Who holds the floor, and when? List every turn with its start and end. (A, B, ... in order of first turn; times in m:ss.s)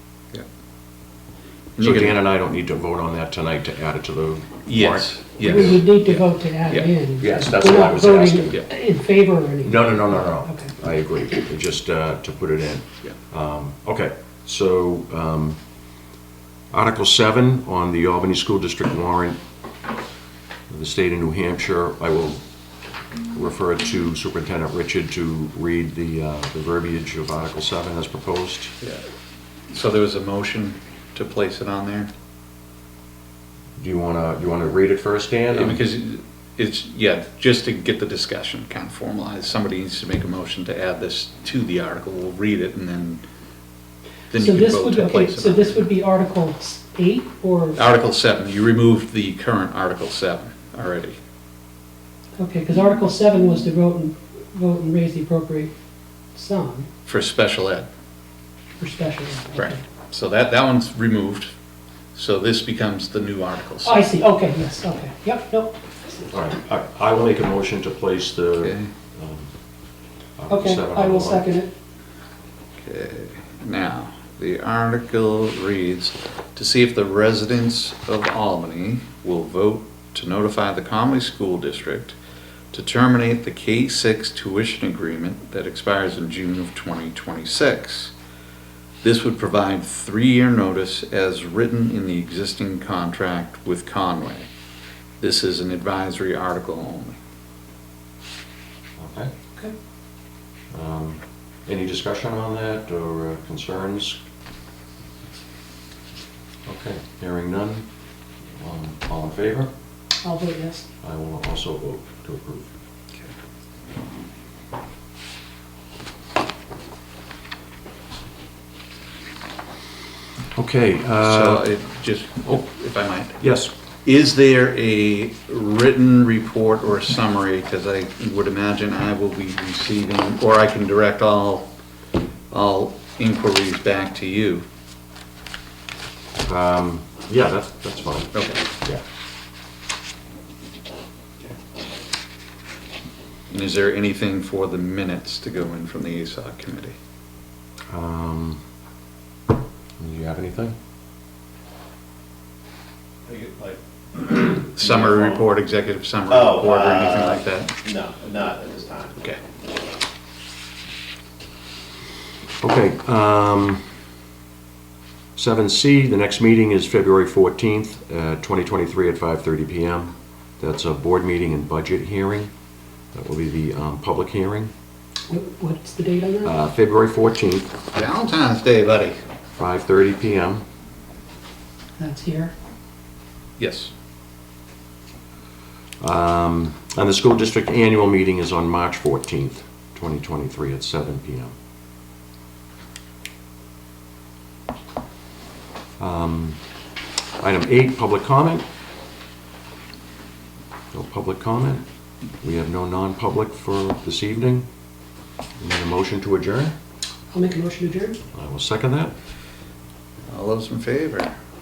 0:01.8-0:02.2 A
0:01.8-0:05.1 B
0:04.6-0:06.9 A
0:05.4-0:10.7 C
0:07.2-0:08.6 B
0:09.6-0:15.6 B
0:16.7-0:19.4 B
0:20.7-0:22.4 B
0:23.3-0:28.8 B
0:28.8-0:29.1 A
0:29.7-0:32.1 A
0:33.8-0:35.8 B
0:35.5-0:43.2 A
0:44.3-0:45.9 A
0:44.4-0:47.8 C
0:47.8-0:51.2 A
0:52.4-0:55.7 C
0:56.4-0:56.9 C
0:57.1-0:57.9 A
0:58.8-0:59.8 C
0:59.6-1:01.5 A
1:02.2-1:04.0 A
1:03.8-1:06.3 C
1:06.3-1:09.5 B
1:08.6-1:08.9 A
1:10.4-1:11.4 B
1:10.5-1:11.7 C
1:12.8-1:22.2 A
1:22.7-1:28.1 A
1:29.0-1:34.5 A
1:35.2-1:37.2 A
1:39.0-1:39.3 B
1:40.7-1:44.2 B
1:46.7-1:47.9 B
1:48.6-1:49.7 B
1:50.2-1:50.9 C
1:51.0-1:52.7 B
2:00.6-2:01.7 B
2:01.2-2:03.4 A
2:03.4-2:03.7 B
2:04.0-2:11.7 A
2:12.5-2:14.6 A
2:16.4-2:18.3 B
2:18.3-2:18.7 A
2:23.5-2:27.0 A
2:27.9-2:28.6 B
2:30.0-2:30.8 B
2:33.2-2:35.4 D
2:34.4-2:37.8 A
2:36.3-2:39.2 D
2:42.6-2:43.8 B
2:45.4-2:52.5 B
2:53.1-2:54.7 B
2:55.3-2:56.5 C
2:56.4-2:57.7 B
2:57.9-2:59.2 A
2:59.6-3:00.6 B
3:02.0-3:02.5 C
3:03.6-3:03.9 A
3:06.0-3:11.5 B
3:16.0-3:16.6 B
3:17.4-3:18.7 B
3:20.9-3:21.8 B
3:22.4-3:24.7 B
3:25.6-3:26.8 B
3:27.3-3:28.2 C
3:28.3-3:29.1 B
3:30.3-3:31.3 A